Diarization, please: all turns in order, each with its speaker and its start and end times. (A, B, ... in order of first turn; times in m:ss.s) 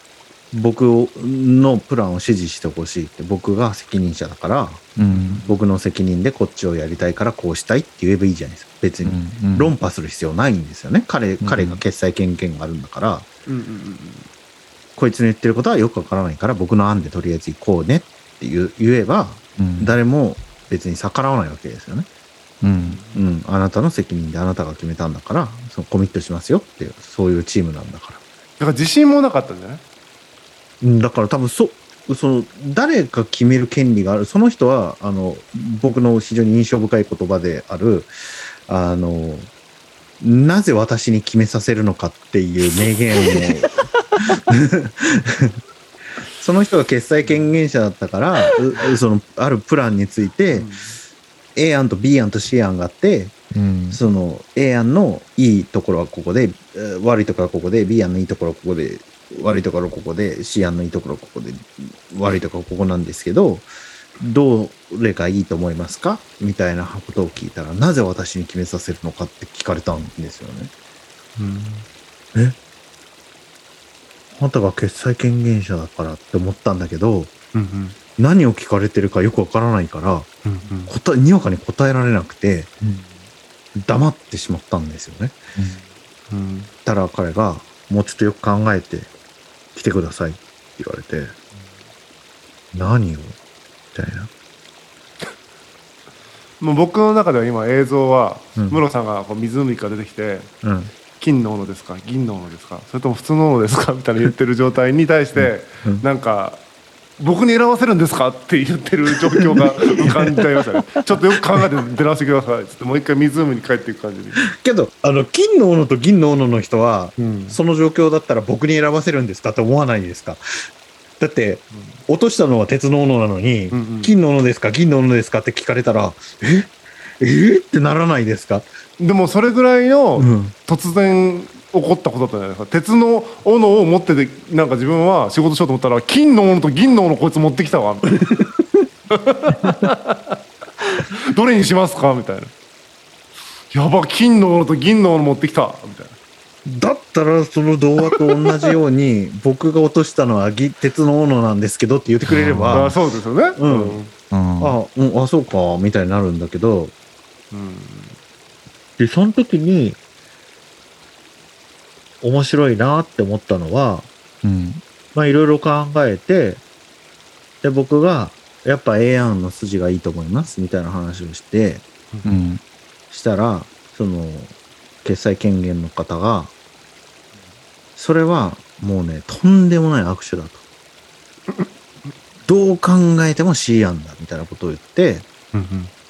0:00.5-0:04.9 A
0:05.0-0:05.4 B
0:05.1-0:05.5 C
0:05.4-0:13.3 A
0:09.0-0:09.7 B
0:11.4-0:11.8 B
0:13.5-0:14.3 C
0:15.0-0:22.1 A
0:19.6-0:20.0 B
0:22.6-0:23.0 B
0:22.8-0:23.2 C
0:23.1-0:28.2 A
0:28.6-0:29.8 C
0:30.8-0:38.1 A
0:38.6-0:39.5 A
0:40.2-0:45.6 A
0:46.4-0:50.7 A
0:47.2-0:47.5 C
0:50.5-0:51.0 C
0:51.6-0:53.3 A
0:53.5-0:54.0 B
0:53.9-1:03.7 A
1:04.2-1:10.7 A
1:11.4-1:11.8 C
1:14.3-1:17.3 A
1:17.5-1:18.0 C
1:18.2-1:20.3 A
1:20.4-1:20.9 C
1:20.9-1:22.7 A
1:22.8-1:23.1 B
1:23.7-1:25.4 A
1:25.5-1:25.8 B
1:26.3-1:26.7 C
1:26.8-1:29.1 A
1:29.7-1:31.4 A
1:32.7-1:33.4 A
1:33.9-1:34.3 A
1:36.6-1:40.5 C
1:40.6-1:40.9 A
1:41.2-1:46.6 C
1:45.4-1:46.0 A
1:47.2-1:54.4 C
1:49.1-1:50.5 A
1:54.5-2:00.4 A
1:57.2-1:57.6 C
2:01.2-2:08.7 A
2:03.7-2:04.1 C
2:09.0-2:18.4 C
2:10.2-2:10.5 A
2:18.3-2:18.8 A
2:19.1-2:22.5 C
2:23.7-2:26.2 C
2:26.6-2:33.0 A
2:28.3-2:28.7 C
2:32.2-2:32.9 B
2:32.7-2:34.1 C
2:33.6-2:34.0 A
2:34.3-2:34.8 B
2:34.6-2:36.9 A
2:37.5-2:38.2 C
2:39.0-2:40.0 A
2:42.2-2:44.1 A
2:44.4-2:44.8 B
2:45.1-2:46.6 A
2:47.6-2:51.8 A
2:52.2-2:52.6 B
2:53.1-2:56.5 A
2:58.0-3:00.6 A
3:02.4-3:05.2 A
3:05.5-3:05.9 C